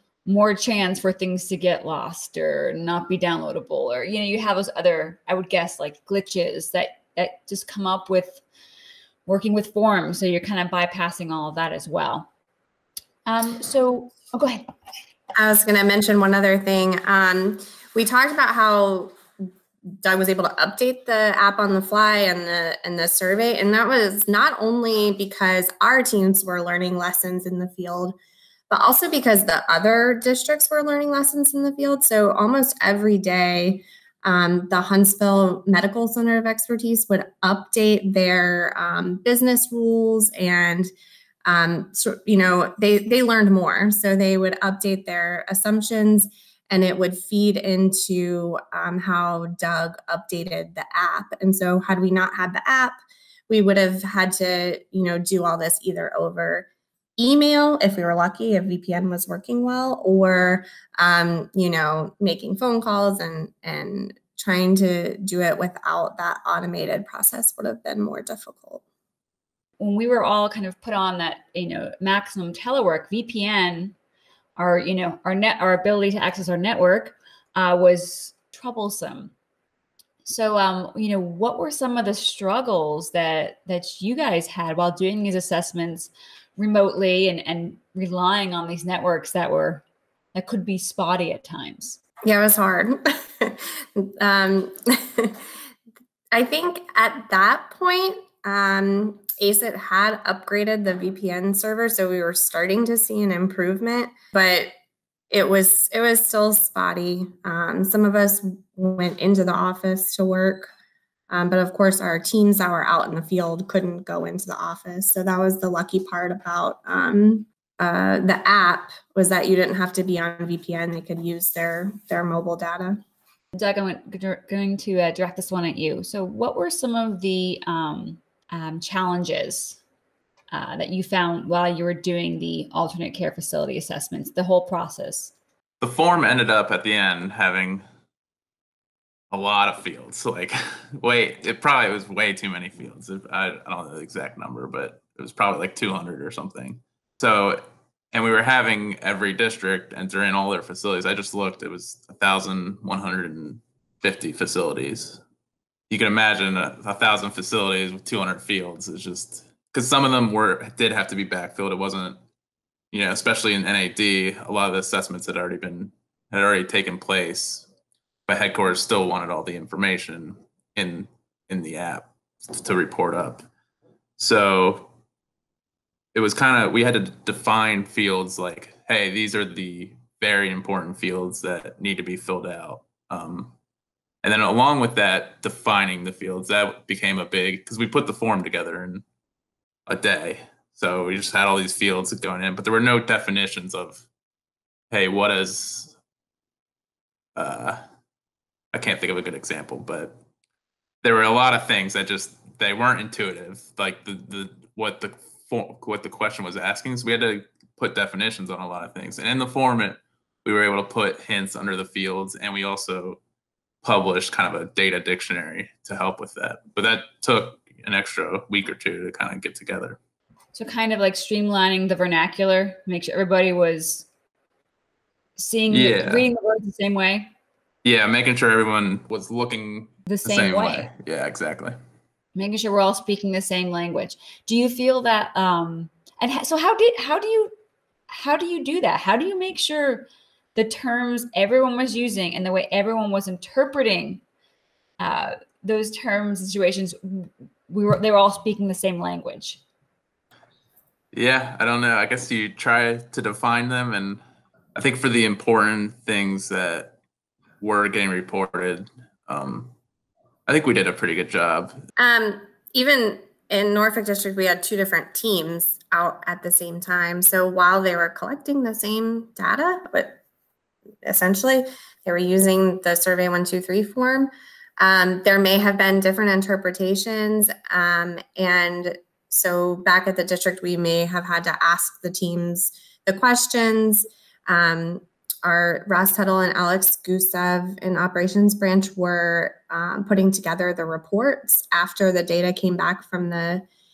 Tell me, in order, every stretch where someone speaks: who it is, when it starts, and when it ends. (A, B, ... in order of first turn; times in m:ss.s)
0:00.2-0:08.4 A
0:09.2-0:12.3 A
0:13.2-0:14.6 A
0:15.4-0:19.5 B
0:20.0-0:28.2 B
0:28.7-0:40.9 B
0:41.4-1:08.8 B
1:09.8-1:13.9 A
1:14.6-1:19.3 A
1:20.2-1:29.8 A
1:30.3-1:32.0 A
1:32.2-1:35.4 B
1:36.3-1:44.7 B
1:45.3-1:50.7 B
1:51.3-2:03.0 B
2:03.5-2:09.8 A
2:10.5-2:15.3 A
2:15.8-2:17.8 C
2:19.3-2:35.2 C
2:35.9-2:42.2 C
2:42.9-2:47.7 C
2:48.3-2:53.4 C
2:54.2-2:54.9 C
2:56.1-3:03.5 C
3:04.2-3:09.0 C
3:09.9-3:14.0 C
3:14.9-3:15.9 C
3:17.3-3:17.8 C
3:18.7-3:20.2 C
3:21.0-3:33.2 C
3:33.8-3:40.0 C
3:40.5-3:44.0 A
3:45.4-3:47.3 A
3:45.7-3:46.3 C
3:47.8-3:51.8 C
3:50.0-3:50.9 A
3:52.4-3:57.5 A
3:58.1-4:04.2 A
4:05.0-4:09.6 A
4:11.1-4:14.2 C
4:14.7-4:17.0 C
4:17.6-4:19.7 C
4:20.5-4:21.8 C
4:22.0-4:30.2 B
4:31.0-4:53.6 B